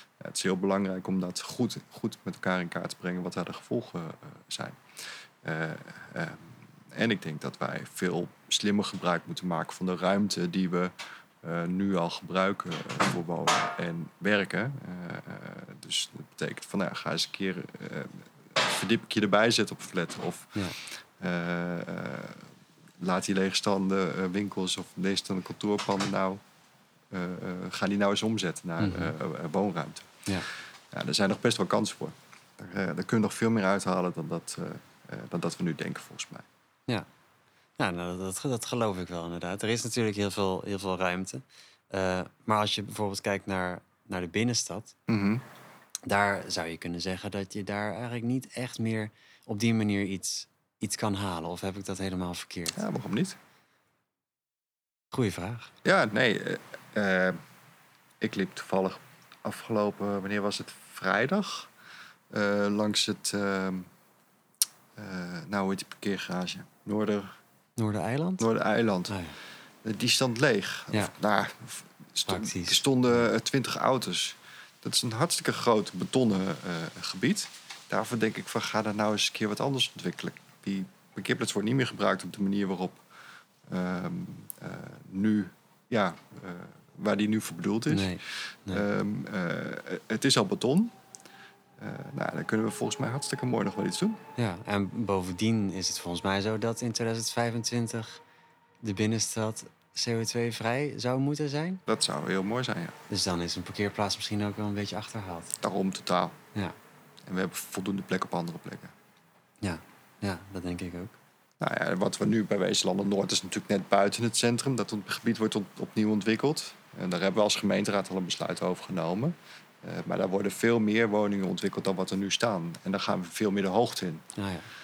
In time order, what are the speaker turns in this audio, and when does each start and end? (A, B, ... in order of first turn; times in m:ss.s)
0:00.2-0:22.5 A
0:23.0-0:26.4 A
0:27.1-0:30.2 A
0:28.8-0:29.1 B
0:30.9-0:36.5 A
0:37.8-0:44.9 B
0:45.1-0:45.4 A
0:46.1-0:52.8 B
0:52.7-0:53.4 A
0:55.1-0:55.7 B
0:55.8-0:57.4 A
0:58.2-1:01.7 A
1:02.3-1:03.9 A
1:05.0-1:07.4 A
1:07.8-1:08.4 B
1:08.4-1:09.2 A
1:09.1-1:09.4 B
1:09.8-1:23.0 A
1:12.3-1:12.8 B
1:23.7-1:30.9 A
1:27.9-1:28.8 B
1:31.8-1:34.2 A
1:34.4-1:38.2 B
1:38.8-1:41.8 B
1:41.9-1:43.0 A
1:43.1-1:45.5 B
1:45.6-1:46.4 A
1:47.3-1:48.9 A
1:49.6-1:51.2 B
1:51.6-2:04.2 A
2:04.4-2:04.7 B